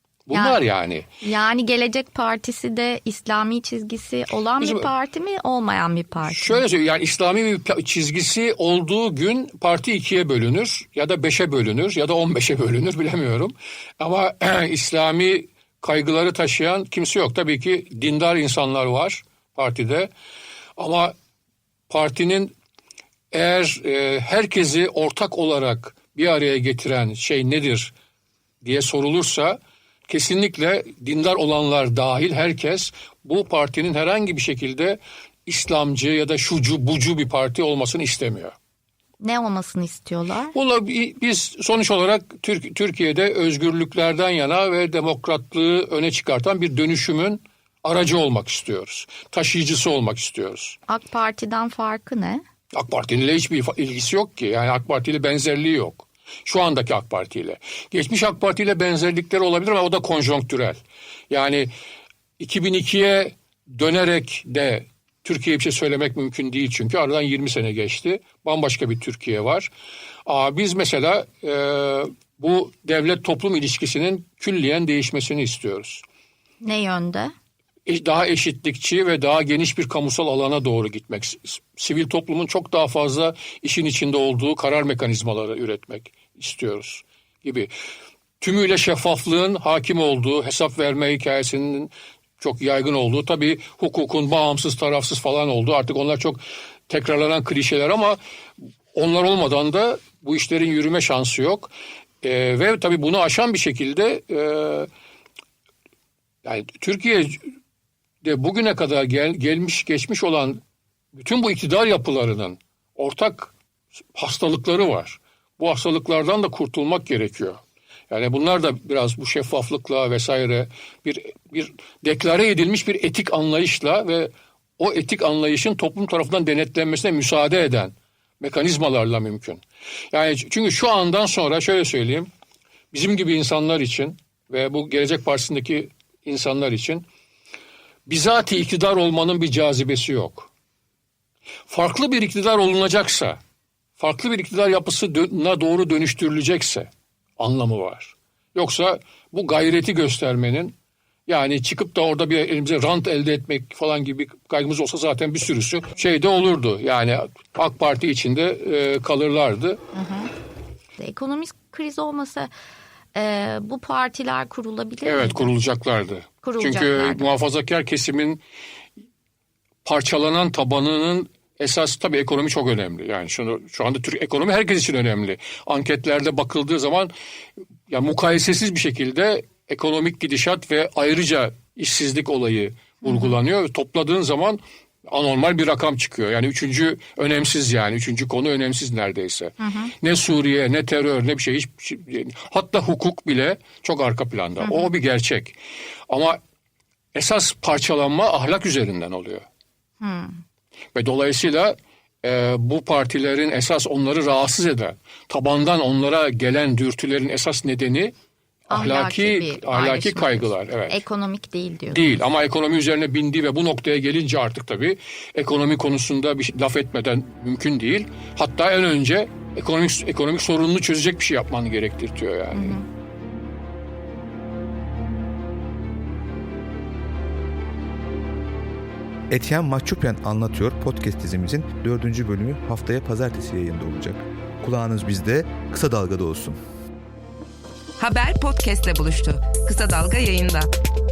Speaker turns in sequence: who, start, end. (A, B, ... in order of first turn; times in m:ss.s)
0:00.3-0:01.1 A
0:00.3-0:00.6 B
0:01.2-0:06.6 B
0:04.6-0:04.9 A
0:06.3-0:20.1 A
0:20.8-0:21.2 A
0:21.9-0:22.5 A
0:23.3-0:27.9 A
0:28.6-0:38.6 A
0:39.2-0:40.5 B
0:40.5-0:50.8 A
0:50.9-0:52.4 B
0:52.7-1:01.7 A
1:02.4-1:09.7 A
1:10.3-1:16.0 A
1:16.6-1:17.3 B
1:17.9-1:27.7 A
1:28.4-1:38.2 A
1:38.9-1:44.9 A
1:46.4-1:47.5 A
1:48.2-1:50.6 A
1:51.2-1:53.5 A
1:54.2-2:12.3 A
2:12.9-2:17.1 A
2:18.1-2:20.5 A
2:21.7-2:23.4 A
2:24.0-2:30.8 A
2:31.3-2:39.8 A
2:39.9-2:40.3 B
2:41.0-2:42.5 B
2:43.2-2:45.5 B
2:45.0-2:48.4 A
2:46.4-2:47.3 B
2:49.8-2:57.1 A
2:57.9-3:15.6 A
3:03.0-3:03.4 B
3:09.6-3:09.9 B
3:14.6-3:14.9 B
3:16.1-3:16.4 A
3:17.2-3:19.4 A
3:20.0-3:20.4 B
3:21.0-3:28.2 A
3:28.7-3:31.0 A
3:28.7-3:32.2 B
3:31.9-3:42.8 A
3:42.5-3:42.8 B
3:49.3-3:56.6 C
3:58.0-4:00.7 D